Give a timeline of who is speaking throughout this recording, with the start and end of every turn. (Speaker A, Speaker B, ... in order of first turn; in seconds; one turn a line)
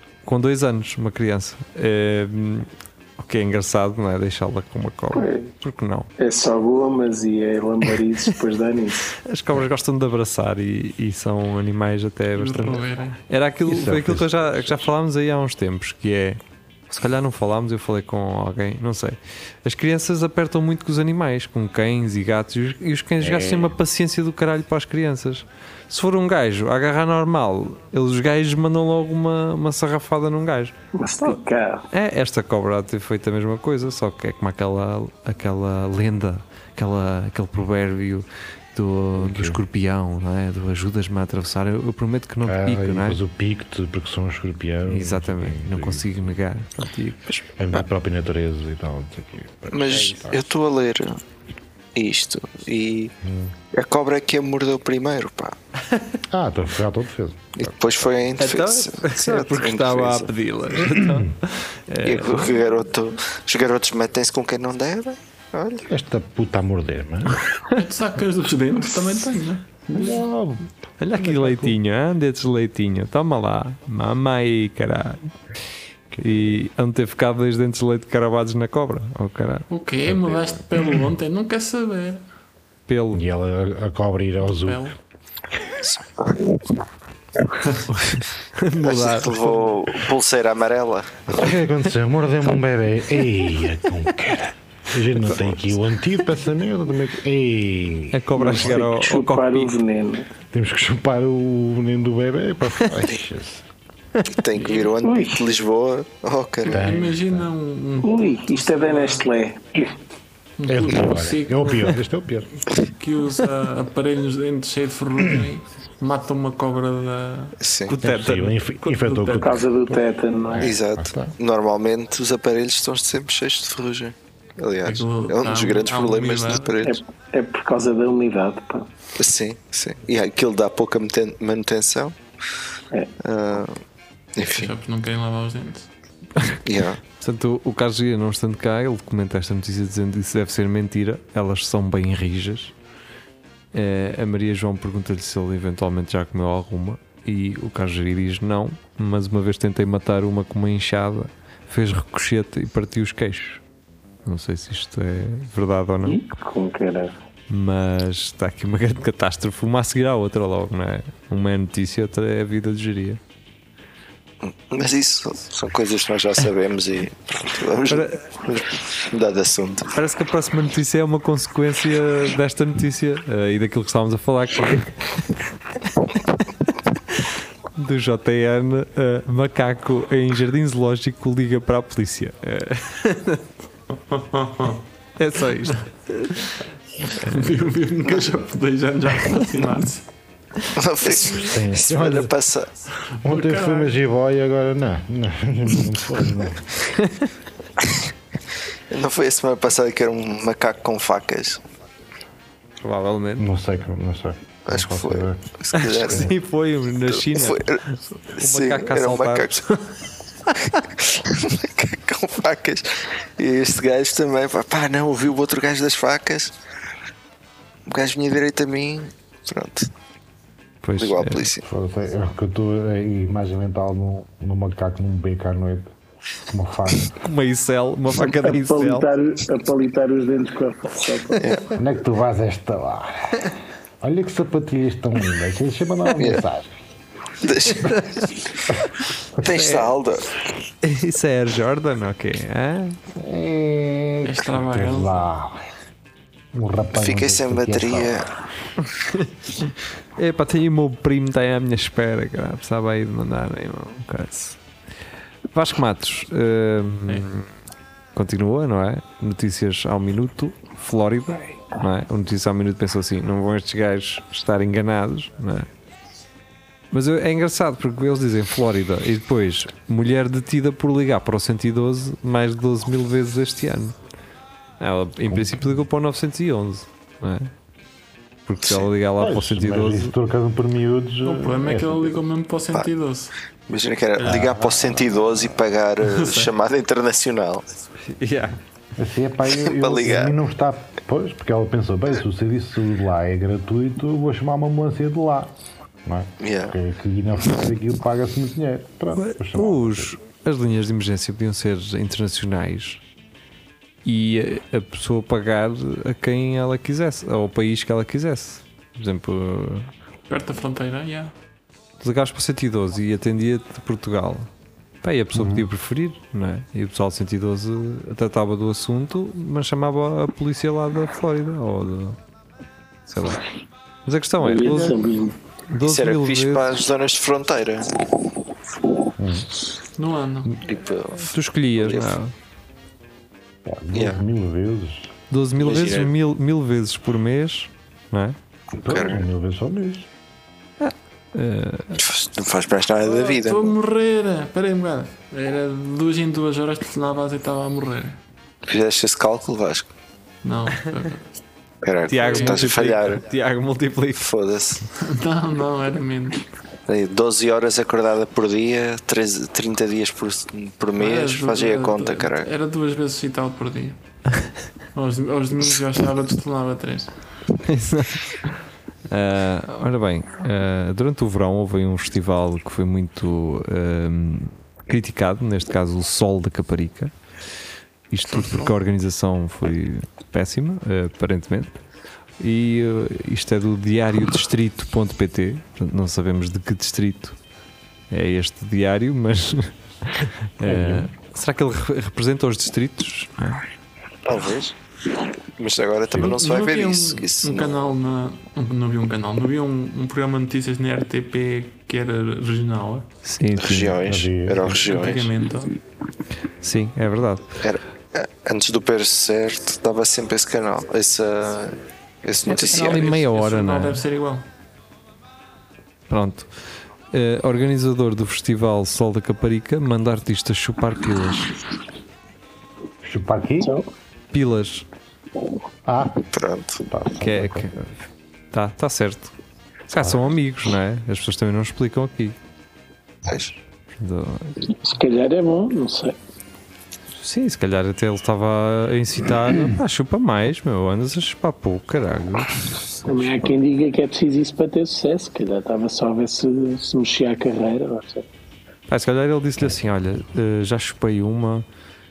Speaker A: 0.2-6.1
Speaker B: 5.1-5.5
Speaker B: 6.2-9.1
Speaker A: 9.2-43.2
Speaker C: 12.3-13.2
Speaker D: 13.7-14.9
Speaker D: 23.2-23.8
Speaker B: 31.0-31.8
Speaker D: 39.2-39.6
Speaker D: 42.4-46.3
Speaker A: 44.9-47.4
Speaker D: 47.5-50.4
Speaker E: 49.7-51.2
Speaker E: 51.9-53.1
Speaker D: 53.2-53.5
Speaker E: 53.7-55.5
Speaker A: 55.9-56.2
Speaker D: 56.3-57.7
Speaker E: 57.6-60.3
Speaker A: 58.4-62.6
Speaker D: 60.8-61.3
Speaker E: 62.0-65.9
Speaker D: 65.9-67.4
Speaker C: 67.7-70.2
Speaker D: 69.9-71.8
Speaker A: 71.0-75.3
Speaker D: 76.1-76.5
Speaker A: 76.2-79.7
Speaker C: 79.7-82.2
Speaker D: 80.1-80.6
Speaker A: 82.9-83.2
Speaker D: 83.1-84.9
Speaker C: 84.4-84.9
Speaker E: 85.8-86.5
Speaker A: 87.9-89.7
Speaker E: 88.8-91.3
Speaker D: 91.3-98.7
Speaker A: 98.1-99.8
Speaker B: 98.4-100.3
Speaker D: 100.5-103.7
Speaker E: 104.3-106.9
Speaker C: 104.5-104.9
Speaker B: 105.0-105.4
Speaker C: 106.6-109.3
Speaker D: 106.7-107.5
Speaker B: 108.0-109.9
Speaker C: 110.6-112.0
Speaker D: 110.7-112.5
Speaker C: 112.7-117.6
Speaker E: 117.6-117.9
Speaker A: 117.9-118.5
Speaker D: 118.0-121.3
Speaker C: 118.8-119.6
Speaker B: 119.4-120.7
Speaker E: 120.6-127.0
Speaker C: 124.8-126.7
Speaker B: 126.8-128.9
Speaker E: 129.2-132.1
Speaker E: 133.2-133.8
Speaker E: 134.3-134.7
Speaker C: 134.4-135.9
Speaker E: 136.6-137.0
Speaker A: 137.2-142.7
Speaker A: 143.7-153.6
Speaker A: 154.2-156.2
Speaker B: 156.0-157.1
Speaker A: 157.5-163.2
Speaker E: 164.4-169.9
Speaker A: 167.9-168.2
Speaker A: 169.9-175.2
Speaker A: 175.8-183.4
Speaker C: 184.1-184.8
Speaker A: 185.2-186.6
Speaker C: 187.1-190.0
Speaker A: 187.1-187.5
Speaker E: 190.7-192.7
Speaker D: 191.2-192.3
Speaker C: 193.2-193.9
Speaker D: 193.2-196.7
Speaker A: 196.9-197.3
Speaker E: 198.9-201.6
Speaker A: 202.8-203.5
Speaker D: 203.4-205.4
Speaker E: 204.7-206.3
Speaker A: 205.7-210.8
Speaker D: 206.0-206.3
Speaker E: 207.1-207.8
Speaker E: 208.3-209.6
Speaker E: 210.8-216.5
Speaker E: 217.9-219.9
Speaker A: 220.8-221.5
Speaker E: 221.0-221.6
Speaker D: 221.6-225.9
Speaker D: 226.5-227.2
Speaker A: 227.2-229.1
Speaker B: 228.2-231.4
Speaker E: 231.4-231.7
Speaker D: 231.7-236.7
Speaker E: 236.2-236.4
Speaker E: 237.4-238.3
Speaker A: 237.8-238.2
Speaker E: 239.4-240.3
Speaker A: 239.4-239.9
Speaker A: 240.8-243.0
Speaker D: 243.1-245.6
Speaker C: 244.2-245.2
Speaker D: 246.5-248.4
Speaker E: 246.9-248.3
Speaker A: 248.8-254.6
Speaker A: 255.5-257.5
Speaker A: 258.1-265.7
Speaker A: 266.9-273.9
Speaker A: 274.8-277.5
Speaker D: 275.3-275.8
Speaker A: 278.5-280.1
Speaker E: 278.6-278.9
Speaker D: 279.2-282.2
Speaker C: 281.2-283.3
Speaker E: 283.7-287.7
Speaker C: 284.2-284.5
Speaker D: 284.2-284.9
Speaker C: 286.0-286.5
Speaker A: 288.1-288.6
Speaker D: 288.9-295.5
Speaker E: 289.5-290.3
Speaker D: 296.0-300.1
Speaker E: 296.4-296.7
Speaker A: 299.1-303.0
Speaker A: 304.0-309.9
Speaker C: 310.3-311.3
Speaker A: 312.0-314.5
Speaker A: 315.0-322.2
Speaker D: 315.3-315.7
Speaker A: 323.1-323.4
Speaker A: 324.0-325.0
Speaker B: 324.4-325.4
Speaker A: 325.7-326.8
Speaker E: 325.8-328.0
Speaker D: 329.2-329.5
Speaker C: 330.0-330.6
Speaker E: 330.6-332.1
Speaker A: 331.2-332.3
Speaker D: 333.6-335.1
Speaker E: 333.9-334.2
Speaker A: 335.3-338.4
Speaker E: 335.6-336.1
Speaker D: 338.8-340.1
Speaker E: 338.9-339.2
Speaker A: 340.8-342.0
Speaker E: 342.0-343.7
Speaker C: 343.0-348.2
Speaker E: 348.6-349.9
Speaker C: 350.4-351.2
Speaker E: 351.8-353.2
Speaker A: 352.1-354.2
Speaker C: 352.2-352.6
Speaker E: 354.2-354.9
Speaker C: 355.0-356.5
Speaker E: 356.9-362.5
Speaker C: 360.9-364.0
Speaker C: 364.9-367.1
Speaker A: 367.6-368.4
Speaker A: 369.1-377.1
Speaker A: 378.1-381.8
Speaker A: 382.4-387.4
Speaker A: 388.1-393.6
Speaker D: 390.6-391.1
Speaker E: 394.2-394.7
Speaker E: 395.6-397.8
Speaker D: 396.1-396.4
Speaker C: 396.1-403.1
Speaker A: 403.2-404.0
Speaker E: 403.6-405.3
Speaker D: 404.0-404.8
Speaker C: 404.6-405.7
Speaker A: 406.6-407.6
Speaker E: 407.6-413.2
Speaker A: 412.4-414.0
Speaker C: 412.4-414.4
Speaker A: 416.1-416.5
Speaker A: 417.1-421.5
Speaker D: 423.0-423.7
Speaker B: 423.6-423.9
Speaker A: 424.3-424.9
Speaker D: 425.8-426.2
Speaker E: 426.3-426.8
Speaker D: 426.8-427.7
Speaker A: 427.2-428.0
Speaker A: 428.5-429.3
Speaker A: 429.9-432.4
Speaker E: 433.2-433.6
Speaker A: 434.0-434.6
Speaker B: 434.6-436.1
Speaker A: 437.1-442.7
Speaker B: 443.1-448.2
Speaker A: 448.9-451.6